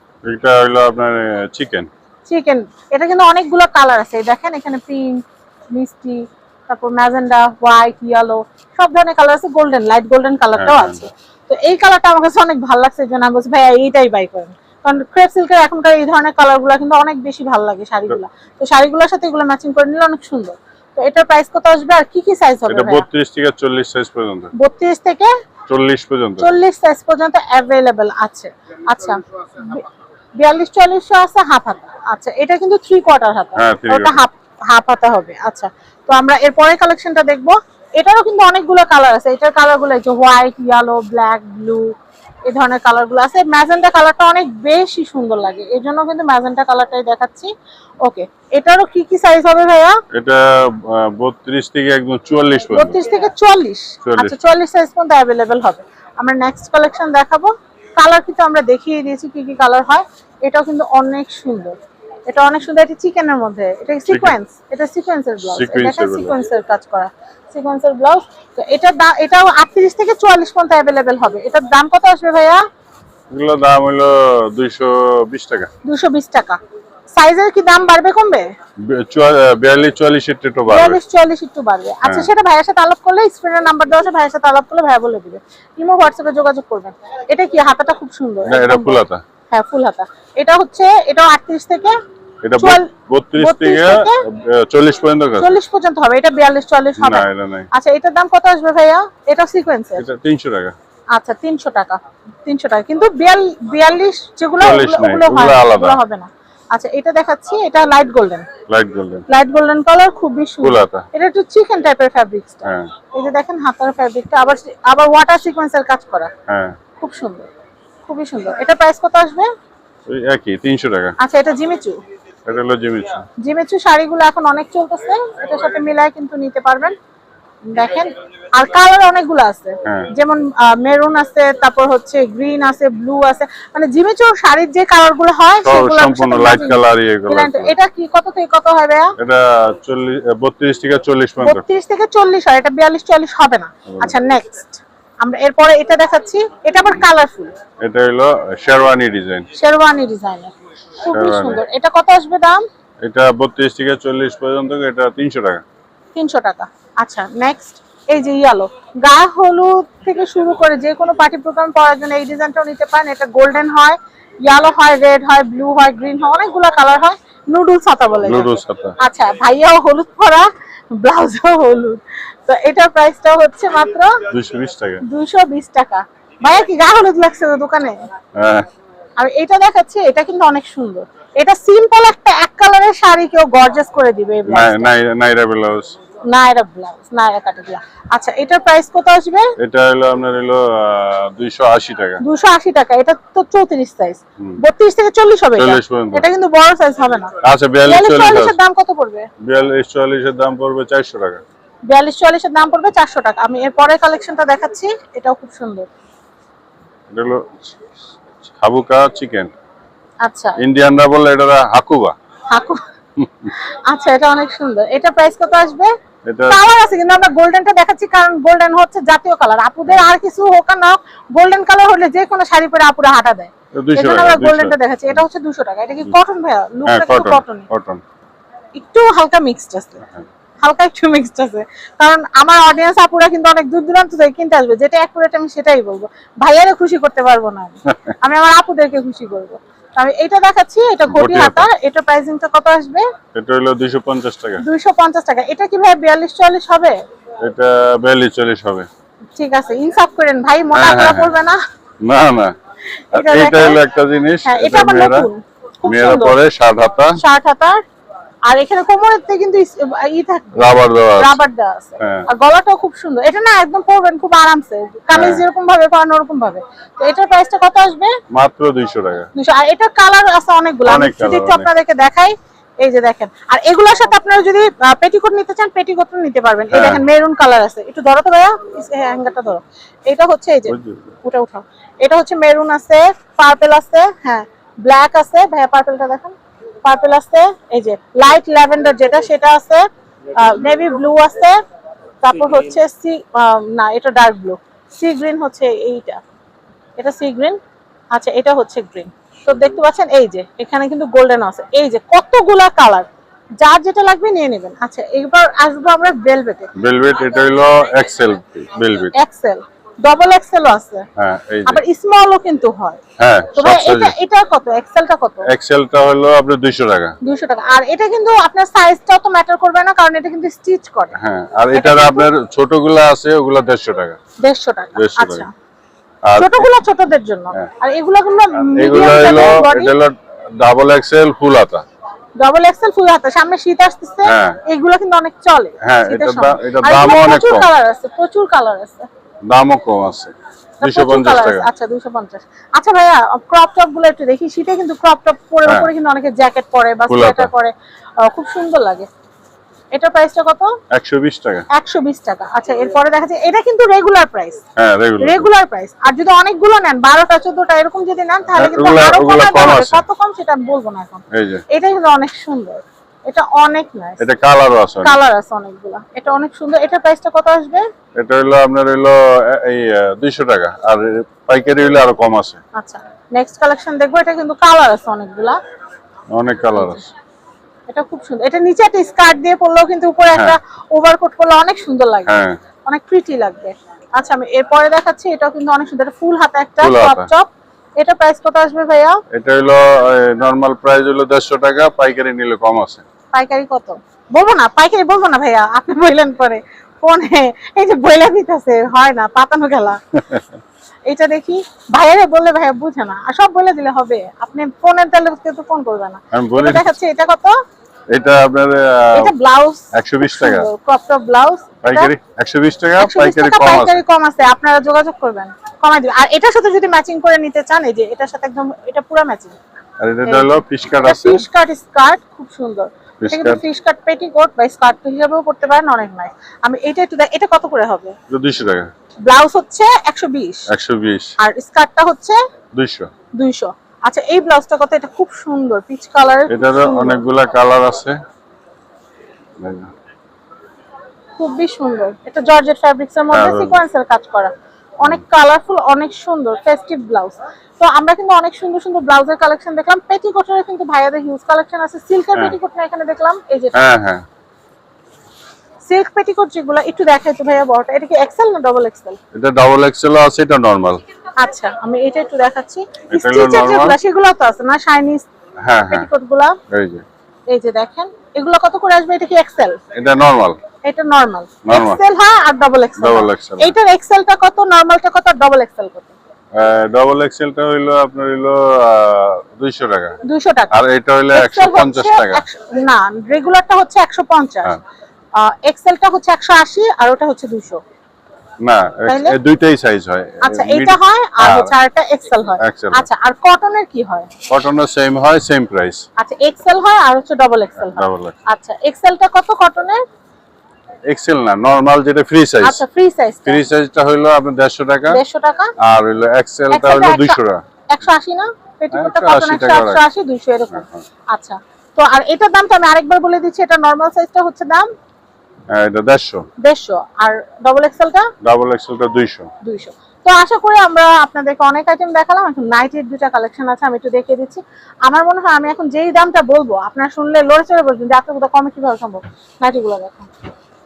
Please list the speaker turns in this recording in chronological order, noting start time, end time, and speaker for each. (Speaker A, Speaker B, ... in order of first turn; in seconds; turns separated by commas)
Speaker A: 0.3-1.9, Speaker B: 2.3-5.2, Speaker B: 5.7-23.1, Speaker A: 10.5-11.0, Speaker A: 22.7-24.5, Speaker B: 24.6-25.3, Speaker A: 25.7-26.5, Speaker B: 26.4-29.9, Speaker B: 30.4-41.9, Speaker A: 33.5-34.2, Speaker B: 42.5-47.5, Speaker B: 48.0-50.0, Speaker A: 50.1-53.0, Speaker B: 52.7-61.7, Speaker A: 54.0-54.3, Speaker B: 62.3-72.6, Speaker A: 64.1-64.3, Speaker A: 65.4-66.3, Speaker A: 73.3-75.7, Speaker B: 75.8-76.6, Speaker B: 77.2-78.5, Speaker A: 78.9-81.0, Speaker B: 80.7-92.0, Speaker A: 82.0-82.3, Speaker A: 88.4-89.2, Speaker A: 92.4-95.6, Speaker B: 92.6-94.2, Speaker B: 95.4-100.0, Speaker A: 97.0-97.7, Speaker A: 100.0-100.7, Speaker B: 101.2-108.5, Speaker A: 104.6-106.0, Speaker A: 108.7-109.2, Speaker B: 109.3-116.3, Speaker A: 110.6-111.1, Speaker A: 112.6-112.9, Speaker A: 116.5-116.8, Speaker B: 117.0-117.5, Speaker B: 118.1-119.5, Speaker A: 120.0-121.2, Speaker B: 121.2-122.0, Speaker A: 122.5-123.2, Speaker B: 123.4-127.0, Speaker B: 127.7-139.1, Speaker A: 129.8-130.1, Speaker A: 135.6-137.8, Speaker A: 139.2-141.6, Speaker B: 141.4-147.5, Speaker A: 143.9-144.2, Speaker A: 147.8-149.4, Speaker B: 149.5-152.6, Speaker A: 151.1-151.6, Speaker A: 153.0-155.6, Speaker B: 156.1-170.5, Speaker A: 168.2-169.0, Speaker B: 171.0-174.2, Speaker A: 174.3-175.0, Speaker B: 175.0-178.0, Speaker A: 178.3-178.7, Speaker B: 179.2-184.9, Speaker A: 184.5-185.9, Speaker B: 186.3-189.5, Speaker A: 189.6-192.2, Speaker B: 192.2-197.3, Speaker A: 195.6-196.2, Speaker A: 197.4-198.6, Speaker B: 197.8-199.3, Speaker A: 199.4-201.4, Speaker B: 201.9-205.9, Speaker A: 207.1-207.8, Speaker A: 208.4-209.5, Speaker B: 210.2-210.6, Speaker A: 210.6-212.1, Speaker B: 212.5-212.8, Speaker A: 213.2-213.5, Speaker B: 213.4-215.9, Speaker A: 216.3-216.6, Speaker B: 216.5-227.7, Speaker A: 223.7-225.2, Speaker A: 226.8-228.0, Speaker B: 228.8-230.0, Speaker B: 230.6-243.1, Speaker A: 241.1-241.7, Speaker A: 243.3-244.6, Speaker B: 244.6-247.0, Speaker A: 247.4-248.9, Speaker B: 249.3-251.6, Speaker A: 250.7-251.3, Speaker A: 252.0-252.5, Speaker B: 253.1-253.8, Speaker A: 253.1-255.3, Speaker B: 254.4-256.4, Speaker A: 255.8-257.2, Speaker B: 257.2-257.8, Speaker B: 258.4-268.1, Speaker A: 260.6-261.4, Speaker A: 262.0-262.3, Speaker A: 265.1-265.4, Speaker A: 268.3-269.3, Speaker B: 269.3-291.6, Speaker A: 270.8-271.7, Speaker A: 276.7-277.0, Speaker A: 280.7-281.1, Speaker B: 292.2-296.2, Speaker B: 297.0-297.6, Speaker B: 298.1-306.7, Speaker A: 306.7-309.1, Speaker B: 309.1-311.1, Speaker A: 311.1-311.8, Speaker B: 311.6-313.0, Speaker A: 313.2-314.2, Speaker B: 313.5-315.5, Speaker A: 315.5-317.1, Speaker B: 317.2-321.1, Speaker A: 321.1-324.2, Speaker B: 321.7-322.3, Speaker B: 324.4-325.5, Speaker A: 324.9-325.4, Speaker A: 326.2-326.7, Speaker B: 326.3-329.9, Speaker A: 328.6-331.8, Speaker B: 332.4-339.1, Speaker A: 334.2-334.6, Speaker A: 335.8-337.7, Speaker A: 339.5-341.7, Speaker B: 340.8-349.1, Speaker A: 347.1-347.5, Speaker B: 349.9-350.7, Speaker A: 350.9-351.7, Speaker B: 351.7-354.6, Speaker A: 354.8-355.5, Speaker B: 355.2-364.2, Speaker A: 358.5-360.0, Speaker A: 361.3-361.6, Speaker A: 364.2-365.2, Speaker B: 365.0-367.8, Speaker A: 368.1-372.6, Speaker B: 372.7-375.6, Speaker A: 376.3-377.0, Speaker B: 376.7-377.1, Speaker B: 377.9-389.2, Speaker A: 382.3-382.6, Speaker A: 386.8-387.3, Speaker A: 389.3-393.0, Speaker B: 393.3-400.0, Speaker B: 401.1-407.5, Speaker A: 406.3-406.9, Speaker A: 408.1-409.3, Speaker B: 409.1-412.1, Speaker A: 409.9-410.7, Speaker A: 411.8-414.0, Speaker B: 413.0-419.6, Speaker A: 420.0-421.4, Speaker B: 420.2-428.1, Speaker A: 423.2-423.6, Speaker A: 428.3-428.9, Speaker B: 429.2-430.7, Speaker A: 430.7-431.3, Speaker B: 431.4-432.4, Speaker A: 432.8-433.1, Speaker B: 433.4-437.2, Speaker A: 436.5-438.2, Speaker A: 439.6-439.9, Speaker B: 441.4-453.8, Speaker A: 443.3-443.8, Speaker A: 453.7-454.2, Speaker B: 455.9-459.2, Speaker A: 459.3-461.0, Speaker B: 461.4-465.3, Speaker A: 463.1-463.9, Speaker A: 465.6-466.1, Speaker B: 465.8-466.6, Speaker A: 466.7-467.0, Speaker B: 467.5-469.8, Speaker A: 469.9-470.6, Speaker B: 470.8-476.1, Speaker A: 471.6-472.0, Speaker A: 473.0-473.7, Speaker A: 476.6-480.2, Speaker B: 480.2-480.7, Speaker A: 480.7-482.4, Speaker B: 481.3-484.8, Speaker B: 485.4-487.8, Speaker A: 488.6-491.7, Speaker B: 489.1-489.3, Speaker B: 490.4-494.3, Speaker A: 492.6-493.1, Speaker A: 494.5-496.0, Speaker B: 496.2-500.0, Speaker A: 497.8-498.4, Speaker A: 501.1-502.8, Speaker B: 502.6-503.6, Speaker A: 503.4-505.2, Speaker B: 505.1-505.7, Speaker A: 505.8-507.6, Speaker B: 506.7-507.4, Speaker B: 507.9-514.9, Speaker A: 508.9-510.0, Speaker A: 510.8-511.1, Speaker A: 515.7-516.5, Speaker B: 516.6-518.3, Speaker A: 518.4-519.5, Speaker B: 519.6-530.3